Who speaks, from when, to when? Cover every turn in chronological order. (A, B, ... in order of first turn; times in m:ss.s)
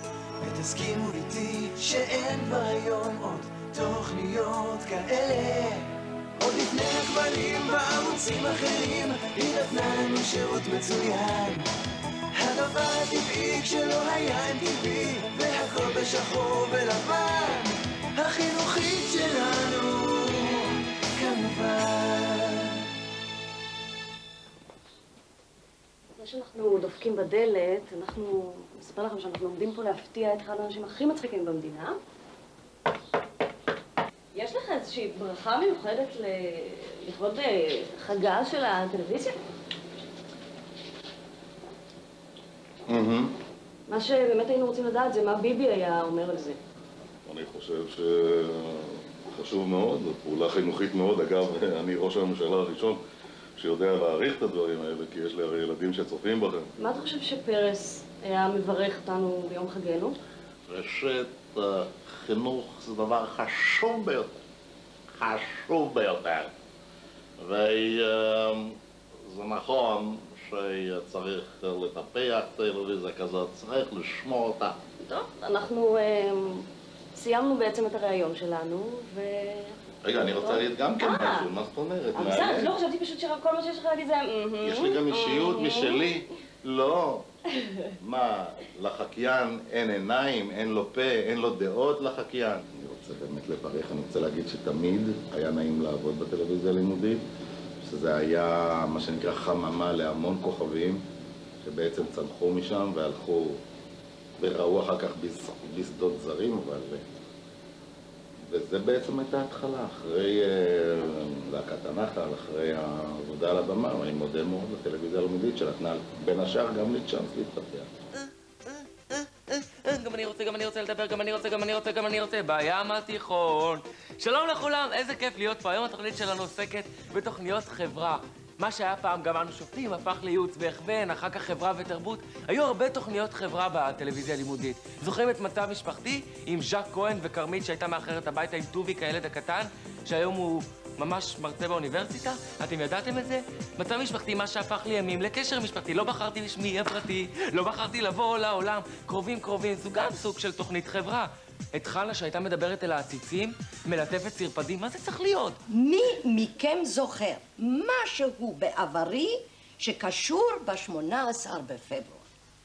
0:00.4-0:11.6 A
0:12.3-0:22.7 A
0:26.1-0:32.0 B
0:34.3-0:39.3 B
0:42.9-0:43.3 C
0:43.9-0:46.6 B
0:47.2-0:53.0 D
0:53.6-0:56.7 D
0:56.8-1:00.2 B
1:00.7-1:04.4 C
1:05.2-1:06.5 C
1:07.4-1:08.7 C
1:09.3-1:14.8 C
1:15.0-1:19.8 B
1:20.0-1:22.7 C
1:20.3-1:21.5 B
1:22.1-1:26.1 B
1:24.6-1:27.2 C
1:28.0-1:37.2 C
1:37.8-1:41.0 C
1:41.6-1:43.6 C
1:44.4-1:47.0 C
1:48.5-1:57.9 C
1:59.6-2:35.6 E
2:35.7-2:42.2 F